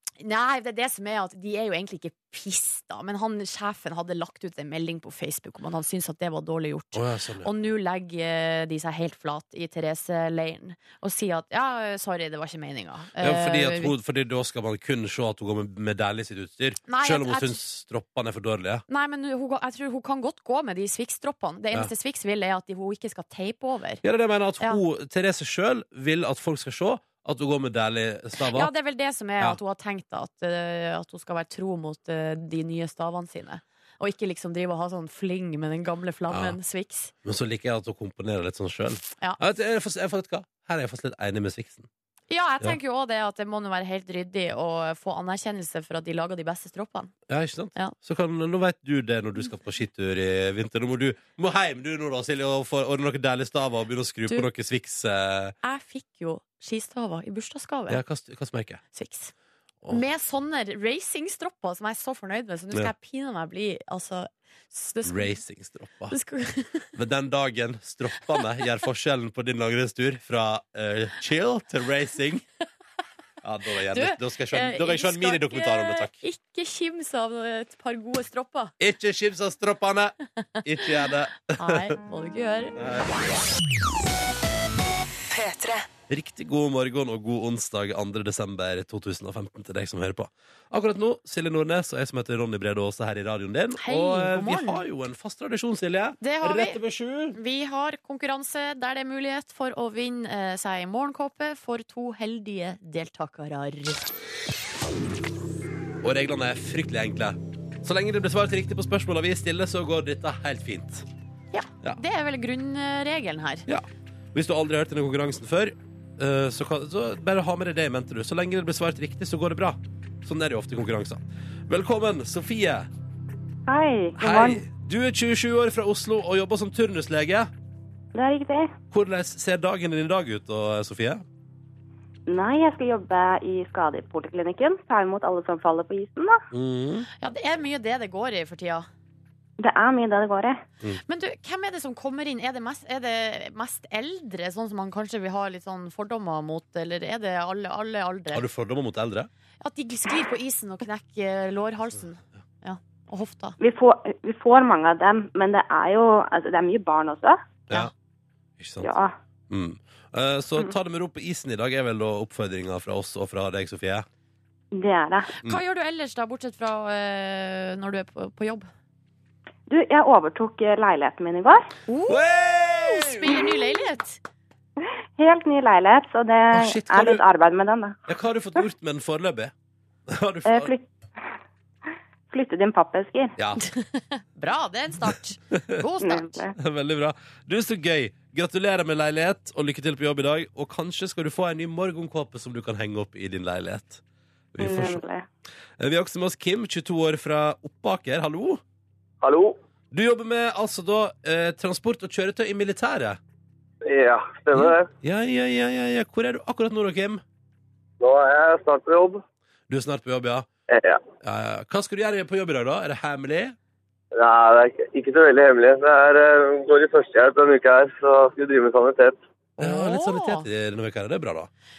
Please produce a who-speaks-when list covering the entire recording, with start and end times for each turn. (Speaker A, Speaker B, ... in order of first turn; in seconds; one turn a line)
Speaker A: 0.2-13.9
Speaker B: 6.9-7.5
Speaker B: 13.2-18.9
Speaker A: 16.9-17.6
Speaker A: 18.9-24.0
Speaker B: 24.0-28.7
Speaker A: 28.4-37.1
Speaker B: 36.3-36.6
Speaker B: 37.2-41.9
Speaker A: 42.3-47.1
Speaker B: 47.3-55.6
Speaker A: 55.6-58.0
Speaker B: 57.9-58.8
Speaker A: 58.9-59.3
Speaker A: 59.9-65.4
Speaker B: 65.0-66.2
Speaker A: 66.1-66.9
Speaker B: 66.9-72.4
Speaker B: 73.4-76.2
Speaker A: 73.9-78.7
Speaker B: 78.8-81.9
Speaker A: 81.5-82.7
Speaker B: 82.8-83.2
Speaker B: 86.1-97.4
Speaker A: 93.8-94.8
Speaker A: 96.2-96.8
Speaker A: 97.3-104.0
Speaker B: 106.0-111.1
Speaker A: 111.5-113.7
Speaker B: 113.7-122.9
Speaker C: 123.7-124.6
Speaker B: 124.2-127.5
Speaker C: 128.2-128.7
Speaker B: 128.9-131.2
Speaker C: 132.3-136.4
Speaker B: 136.5-137.1
Speaker A: 137.2-138.8
Speaker C: 139.6-140.6
Speaker A: 141.1-148.4
Speaker B: 148.3-149.3
Speaker A: 149.6-153.6
Speaker C: 153.6-157.4
Speaker B: 158.6-158.9
Speaker C: 158.8-159.1
Speaker B: 159.5-164.1
Speaker C: 164.7-165.3
Speaker A: 165.4-168.7
Speaker C: 169.7-171.7
Speaker A: 171.9-172.2
Speaker B: 172.1-173.5
Speaker A: 172.8-174.2
Speaker C: 175.2-178.0
Speaker B: 176.5-177.2
Speaker B: 178.1-179.5
Speaker B: 180.1-180.7
Speaker C: 180.4-180.9
Speaker C: 182.3-183.3
Speaker B: 183.4-183.7
Speaker A: 183.6-186.4
Speaker C: 186.0-186.6
Speaker B: 186.6-194.0
Speaker B: 194.6-195.0
Speaker C: 194.6-195.2
Speaker B: 195.8-198.6
Speaker D: 199.2-199.6
Speaker B: 199.9-203.2
Speaker D: 203.8-204.9
Speaker B: 204.5-207.2
Speaker D: 208.0-209.2
Speaker B: 209.7-210.5
Speaker D: 210.7-211.0
Speaker B: 211.2-213.6
Speaker D: 214.1-219.2
Speaker A: 219.6-220.5
Speaker B: 219.6-221.5